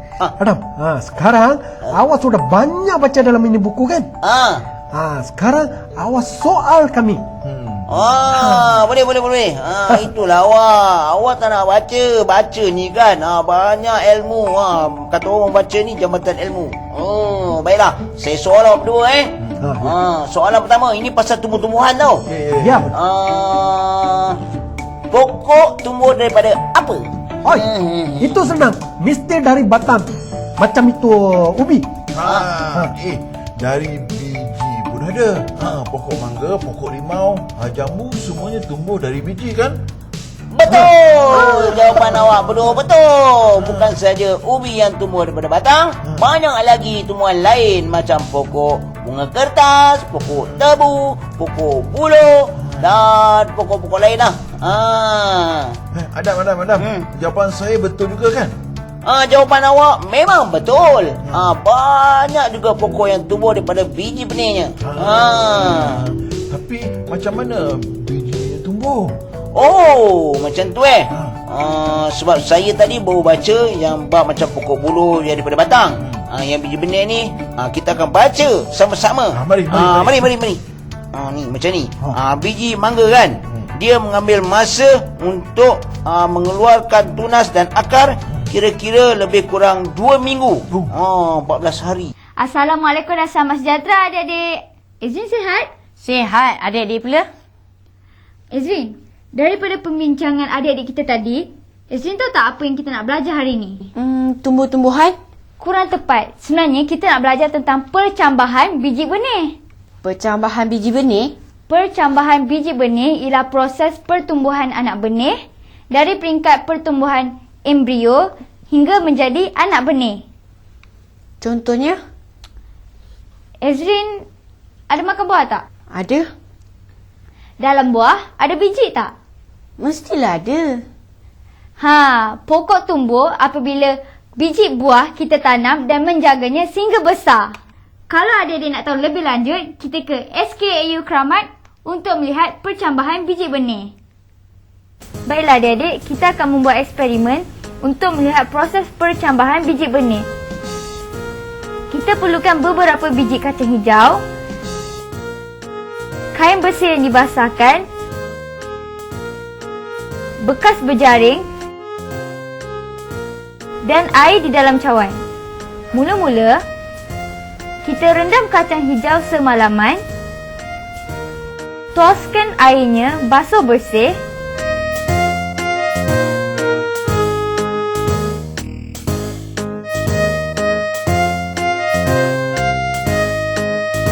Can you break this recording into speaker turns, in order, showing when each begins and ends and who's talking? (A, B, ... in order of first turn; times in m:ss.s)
0:00.4-0:04.1 A
0:04.2-0:04.6 B
0:04.9-0:07.2 A
0:07.4-0:07.9 C
0:07.9-0:22.2 B
0:08.3-0:08.7 A
0:19.6-0:19.9 A
0:22.3-0:22.9 C
0:22.6-0:22.9 A
0:22.9-0:24.4 B
0:25.1-0:28.4 B
0:28.2-0:31.9 A
0:32.1-0:39.8 C
0:32.2-0:32.5 B
0:40.5-0:55.8 B
0:43.6-0:43.9 C
0:52.7-0:52.9 C
0:55.9-0:58.6 C
0:56.8-0:57.0 B
0:59.0-1:06.0 B
1:04.8-1:09.2 C
1:09.6-1:20.6 B
1:19.3-1:20.3 C
1:21.1-1:32.1 B
1:32.4-1:35.7 D
1:36.0-1:37.3 E
1:38.5-1:43.9 D
1:44.0-1:45.2 E
1:45.6-1:49.6 D
1:50.0-1:51.3 E
1:51.7-1:55.4 D
1:55.9-2:00.2 D
2:01.4-2:02.0 E
2:03.6-2:04.2 D
2:04.9-2:05.6 D
2:05.9-2:06.3 E
2:07.6-2:09.1 D
2:09.8-2:10.8 E
2:11.8-2:17.5 D
2:18.1-2:23.9 D
2:25.2-2:30.2 D
2:31.9-2:34.2 D
2:36.3-2:37.8 D
2:40.4-2:41.4 D
2:43.8-2:45.2 D
2:45.9-2:46.6 D
2:47.8-2:50.0 D
2:51.9-2:54.2 D